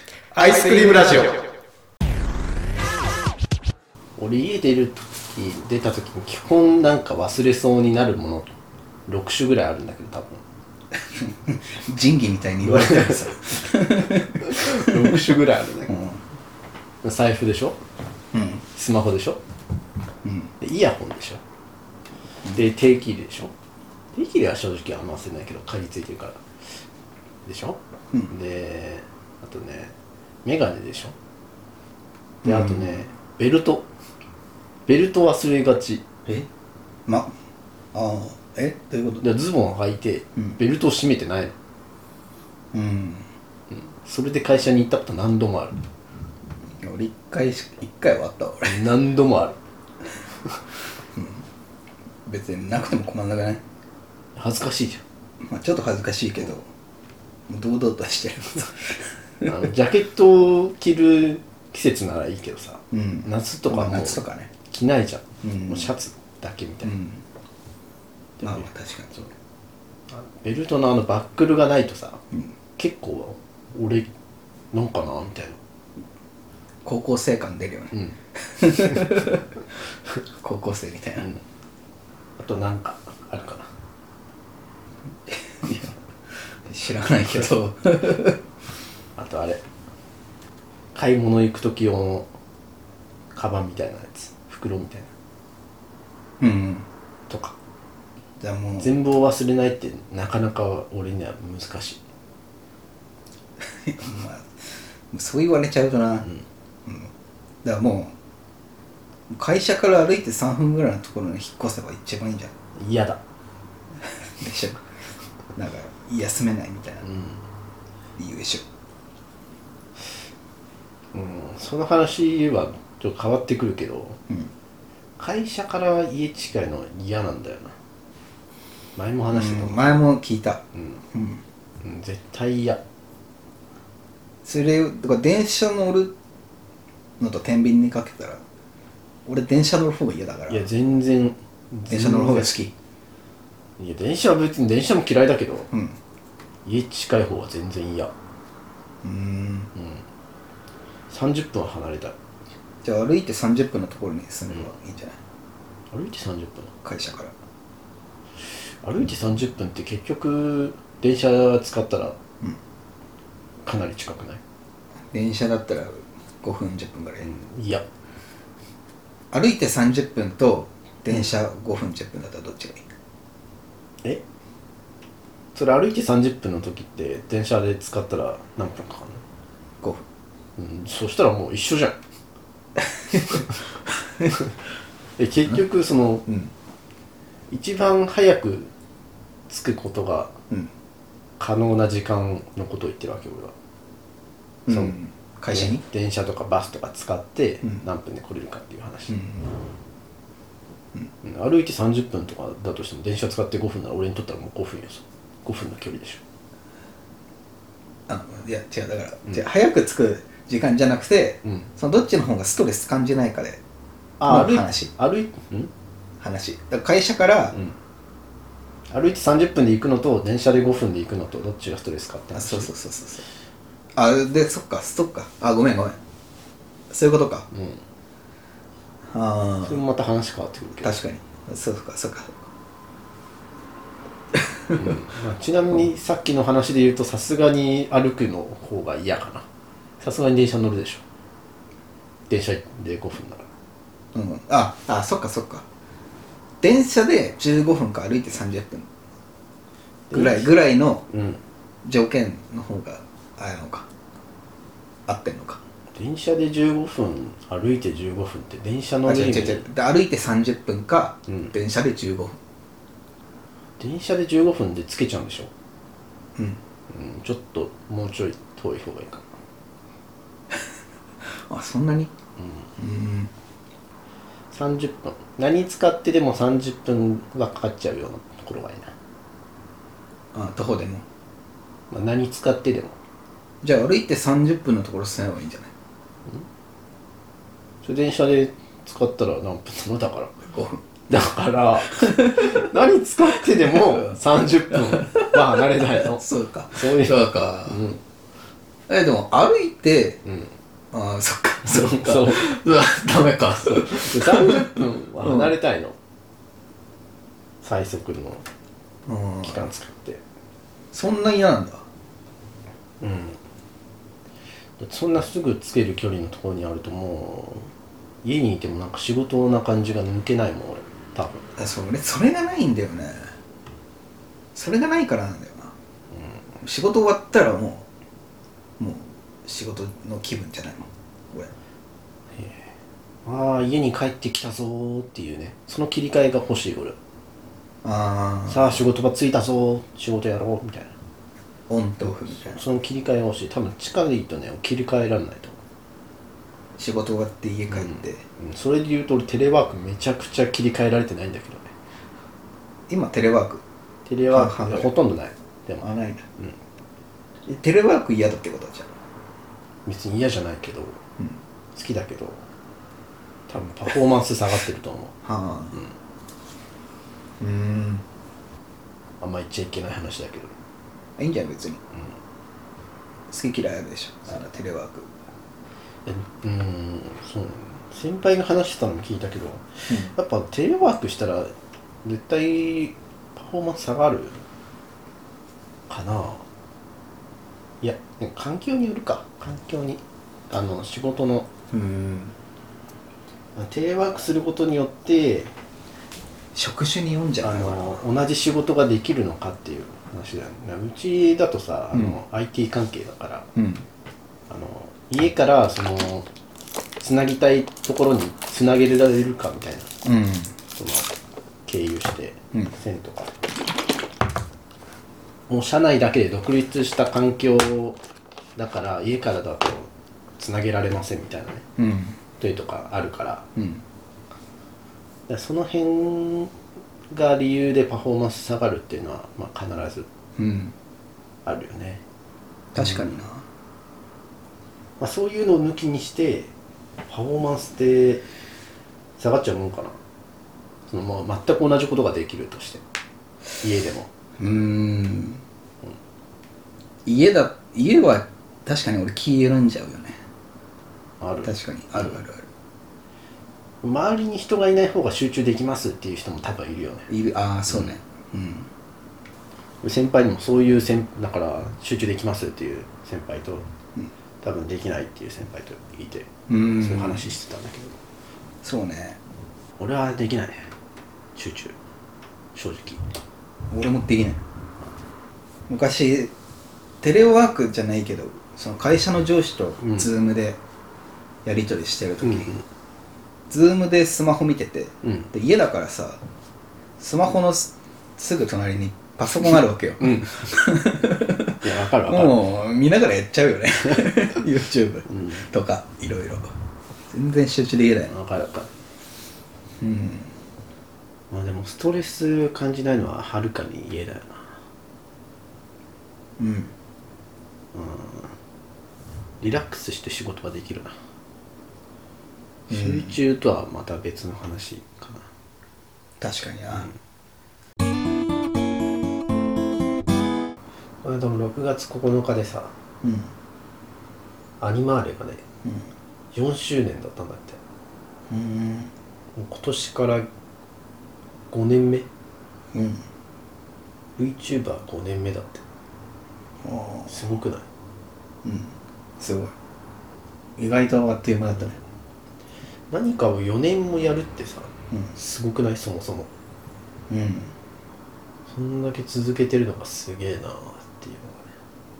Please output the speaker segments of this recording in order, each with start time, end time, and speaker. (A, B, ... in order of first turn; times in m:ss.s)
0:00.3-0:01.4 A
0:04.2-0:08.5 B
0:09.1-0:10.4 B
0:11.2-0:15.4 A
0:12.6-0:13.4 B
0:14.3-0:16.0 B
0:15.9-0:16.2 A
0:17.0-0:17.8 B
0:18.3-0:18.6 A
0:18.7-0:19.4 B
0:20.2-0:20.5 A
0:20.6-0:21.4 B
0:22.5-0:23.5 B
0:24.1-0:26.4 B
0:27.4-0:31.2 B
0:32.4-0:33.0 A
0:32.4-0:33.9 B
0:34.9-0:36.1 B
0:37.1-0:37.3 A
0:37.9-0:39.3 A
0:39.2-0:41.6 B
0:42.7-0:43.3 A
0:43.7-0:45.8 B
0:46.8-0:48.9 A
0:48.7-0:49.6 B
0:51.2-0:51.5 A
0:52.3-0:53.6 A
0:54.4-0:55.0 B
0:55.4-0:56.7 A
0:57.5-0:59.5 A
0:59.4-1:07.0 B
1:02.9-1:04.5 A
1:05.4-1:05.9 A
1:06.8-1:07.2 A
1:08.4-1:08.7 B
1:08.4-1:09.3 A
1:10.1-1:12.2 B
1:12.8-1:14.1 B
1:14.7-1:15.6 B
1:16.8-1:19.4 A
1:20.4-1:21.3 A
1:22.4-1:23.7 B
1:25.3-1:25.9 A
1:26.7-1:28.4 A
1:29.2-1:29.6 B
1:31.0-1:32.3 B
1:33.3-1:35.1 B
1:36.4-1:36.9 A
1:37.3-1:37.6 B
1:38.4-1:39.0 A
1:38.8-1:42.0 B
1:43.8-1:44.5 A
1:45.1-1:46.3 A
1:46.9-1:47.1 A
1:47.6-1:48.2 A
1:49.3-1:52.5 A
1:52.8-1:53.2 B
1:54.0-1:54.8 A
1:55.6-1:57.1 A
1:57.0-1:57.4 B
1:58.2-1:58.6 A
2:01.1-2:04.2 B
2:05.2-2:07.8 B
2:09.0-2:10.0 B
2:09.3-2:10.6 A
2:10.8-2:11.0 B
2:11.1-2:11.4 A
2:11.8-2:12.8 B
2:14.4-2:16.2 A
2:17.2-2:18.4 A
2:19.3-2:20.7 A
2:20.5-2:22.6 B
2:21.9-2:22.7 A
2:23.8-2:25.7 B
2:25.7-2:26.0 A
2:26.6-2:28.1 B
2:29.0-2:29.7 A
2:29.8-2:30.0 B
2:31.1-2:32.2 B
2:32.8-2:35.2 A
2:35.9-2:36.8 B
2:36.8-2:37.3 A
2:38.6-2:42.2 B
2:43.6-2:44.4 B
2:45.1-2:47.3 A
2:47.2-2:47.8 B
2:49.3-2:52.8 A
2:55.5-2:59.2 B
3:00.6-3:02.0 B
3:05.2-3:06.3 B
3:06.3-3:06.5 A
3:07.5-3:08.7 B
3:09.5-3:10.4 B
3:11.4-3:13.5 B
3:14.7-3:15.8 A
3:14.7-3:15.0 B
3:15.5-3:19.2 B
3:19.1-3:19.5 A
3:21.2-3:26.2 B
3:28.1-3:33.6 A
3:34.2-3:35.7 B
3:34.2-3:34.9 A
3:36.2-3:37.6 A
3:38.9-3:42.7 B
3:42.3-3:43.3 A
3:44.0-3:46.0 A
3:46.9-3:47.5 A
3:47.5-3:47.8 B
3:49.1-3:49.8 A
3:49.6-3:51.0 B
3:50.8-3:52.4 A
3:54.8-3:59.5 B
4:00.0-4:01.0 B
4:02.3-4:03.5 B
4:04.1-4:05.6 A
4:06.6-4:08.9 A
4:10.1-4:10.5 B
4:10.1-4:11.0 A
4:11.1-4:11.4 B
4:11.8-4:13.9 A
4:15.1-4:15.6 A
4:16.0-4:19.7 B
4:19.1-4:22.4 A
4:21.3-4:21.5 B
4:23.8-4:25.5 B
4:26.9-4:29.3 B
4:31.5-4:32.1 A
4:32.8-4:33.3 A
4:34.5-4:38.9 B
4:40.3-4:41.0 A
4:41.9-4:43.0 B
4:43.6-4:45.7 A
4:47.8-4:50.4 B
4:50.5-4:50.9 A
4:51.1-4:58.0 B
4:52.0-4:52.5 A
4:54.9-4:57.8 A
4:58.9-5:00.2 A
5:00.3-5:00.5 B
5:00.9-5:05.6 A
5:01.7-5:02.5 B
5:03.6-5:06.0 B
5:07.6-5:08.4 B
5:09.1-5:09.7 A
5:09.4-5:10.2 B
5:10.9-5:11.8 A
5:13.0-5:13.4 B
5:14.8-5:17.7 B
5:18.2-5:21.5 B
5:21.6-5:23.3 A
5:24.6-5:25.7 A
5:26.6-5:27.9 A
5:28.8-5:31.5 A
5:32.4-5:32.7 B
5:33.2-5:37.0 B
5:37.8-5:38.8 A
5:38.5-5:41.0 B
5:41.7-5:42.6 A
5:42.0-5:45.6 B
5:46.8-5:48.2 A
5:47.7-5:51.7 B
5:52.9-5:53.6 A
5:54.1-5:55.8 B
5:54.3-5:55.0 A
5:55.8-5:56.2 A
5:57.5-5:58.9 A
5:59.8-6:01.0 B
6:01.8-6:02.5 B
6:03.5-6:05.2 B
6:05.2-6:05.8 A
6:07.4-6:08.0 A
6:09.2-6:10.6 B
6:11.2-6:11.8 A
6:13.3-6:15.1 A
6:16.0-6:21.5 B
6:22.0-6:24.4 B
6:25.9-6:26.4 B
6:27.8-6:31.5 B
6:31.7-6:32.4 A
6:33.6-6:35.5 B
6:36.6-6:38.0 A
6:37.4-6:43.5 B
6:41.9-6:42.2 A
6:43.6-6:43.9 A
6:44.5-6:46.3 B
6:47.0-6:49.9 B
6:50.0-6:50.6 A
6:50.8-6:51.1 B
6:51.7-6:53.3 B
6:55.5-6:58.0 B
6:58.6-7:01.6 B
7:01.8-7:02.2 A
7:02.4-7:03.5 B
7:03.6-7:03.8 A
7:05.3-7:06.5 B
7:07.1-7:10.1 B
7:10.4-7:10.7 A
7:11.4-7:12.0 B
7:12.7-7:13.4 A
7:15.0-7:16.5 B
7:17.1-7:18.2 B
7:19.2-7:20.0 B
7:20.9-7:22.8 B
7:23.6-7:24.1 B
7:24.4-7:25.4 A
7:27.0-7:30.2 A
7:31.2-7:32.1 B
7:31.4-7:32.5 A
7:33.8-7:37.1 B
7:37.1-7:38.7 A
7:39.8-7:43.7 B
7:44.4-7:48.0 B
7:46.5-7:47.3 A
7:48.6-7:49.2 A
7:49.8-7:50.7 B
7:51.4-7:51.8 B
7:52.6-7:53.0 B
7:53.7-7:54.4 A
7:55.7-7:56.3 A
7:57.0-8:00.6 A
7:59.8-8:00.1 B
8:01.4-8:02.6 A
8:02.2-8:02.6 B
8:03.5-8:06.2 A
8:05.0-8:05.3 B
8:07.0-8:16.5 A
8:09.4-8:10.6 B
8:11.6-8:12.5 B
8:15.1-8:15.4 B
8:17.1-8:18.1 A
8:18.1-8:18.7 B
8:19.8-8:20.3 A
8:21.3-8:24.5 B
8:26.4-8:26.7 A
8:27.7-8:28.4 B
8:29.4-8:31.0 B
8:32.7-8:33.2 A
8:32.7-8:35.3 B
8:36.2-8:36.9 A
8:41.0-8:42.7 B
8:43.0-8:43.3 A
8:44.6-8:45.4 B
8:45.6-8:45.9 A
8:46.3-8:47.6 B
8:48.3-8:48.9 A
8:49.4-8:50.3 B
8:51.5-8:52.1 B
8:52.7-8:53.0 A
8:54.2-8:55.6 B
8:56.6-8:57.1 A
8:57.1-8:57.7 B
8:58.4-8:59.5 A
9:00.6-9:01.8 A
9:02.9-9:06.3 B
9:07.1-9:07.5 A
9:08.5-9:11.5 B